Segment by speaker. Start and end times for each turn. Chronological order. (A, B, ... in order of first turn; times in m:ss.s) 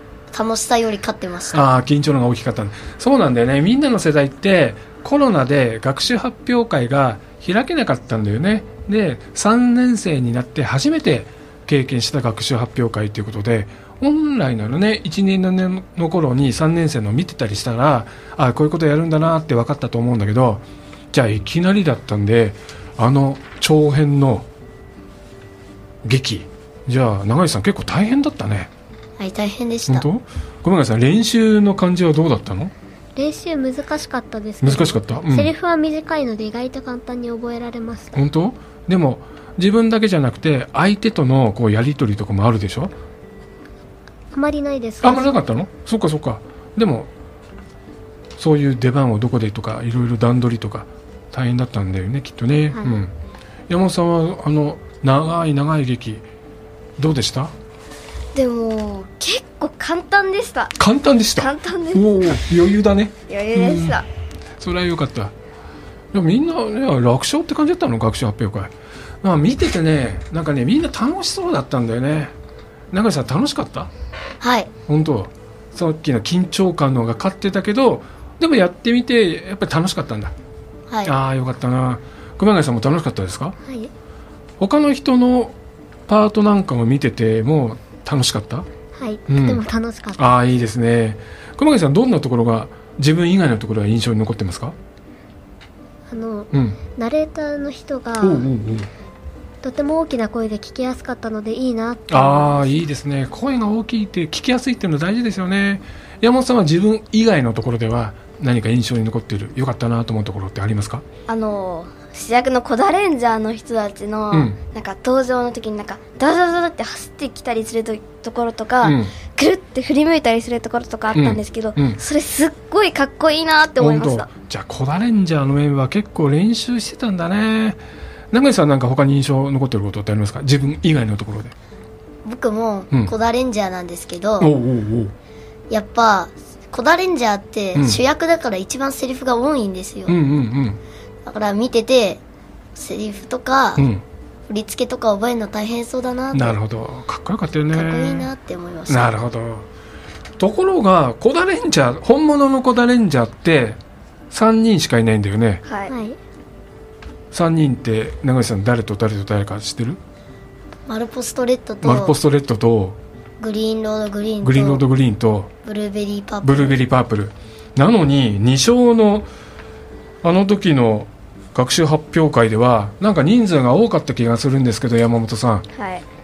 0:00.3-0:01.6 A
0:01.5-0:24.5 B
0:26.0-0:28.7 B
0:29.2-0:30.1 A
0:29.9-0:32.7 B
0:33.2-0:38.2 C
0:34.6-0:35.5 B
0:38.1-0:42.9 B
0:44.3-0:45.3 C
0:45.0-0:47.1 B
0:48.4-0:53.1 B
0:52.7-0:53.0 C
0:53.7-0:56.2 B
0:57.0-0:57.5 B
0:58.4-1:00.8 D
1:00.8-1:04.0 B
1:01.4-1:02.4 D
1:03.3-1:04.1 D
1:04.6-1:05.3 B
1:06.1-1:12.3 B
1:12.9-1:13.9 B
1:14.4-1:14.7 A
1:14.9-1:20.3 B
1:21.0-1:23.6 B
1:23.6-1:23.9 C
1:24.6-1:25.6 B
1:26.1-1:28.7 B
1:28.9-1:30.4 C
1:29.3-1:29.6 B
1:30.2-1:34.8 B
1:36.1-1:38.5 C
1:36.5-1:36.8 B
1:38.2-1:38.9 B
1:39.6-1:42.8 C
1:42.1-1:51.0 B
1:51.3-2:04.3 D
1:54.3-1:54.6 B
1:58.8-1:59.1 B
2:01.1-2:02.0 B
2:03.8-2:07.8 B
2:08.3-2:11.5 B
2:12.2-2:14.5 A
2:14.4-2:15.1 B
2:15.7-2:20.2 A
2:17.8-2:18.0 B
2:20.1-2:20.8 B
2:21.3-2:22.2 A
2:22.8-2:23.9 A
2:23.8-2:24.0 B
2:24.5-2:26.6 A
2:26.3-2:28.3 B
2:27.7-2:29.2 A
2:28.9-2:29.7 B
2:30.4-2:33.8 B
2:34.3-2:35.6 B
2:35.7-2:35.9 D
2:37.3-2:40.0 B
2:40.9-2:42.2 A
2:41.8-2:43.0 B
2:43.4-2:44.8 A
2:44.4-2:45.5 B
2:45.6-2:46.8 A
2:46.4-2:49.3 B
2:50.2-2:55.6 B
2:55.7-2:56.0 D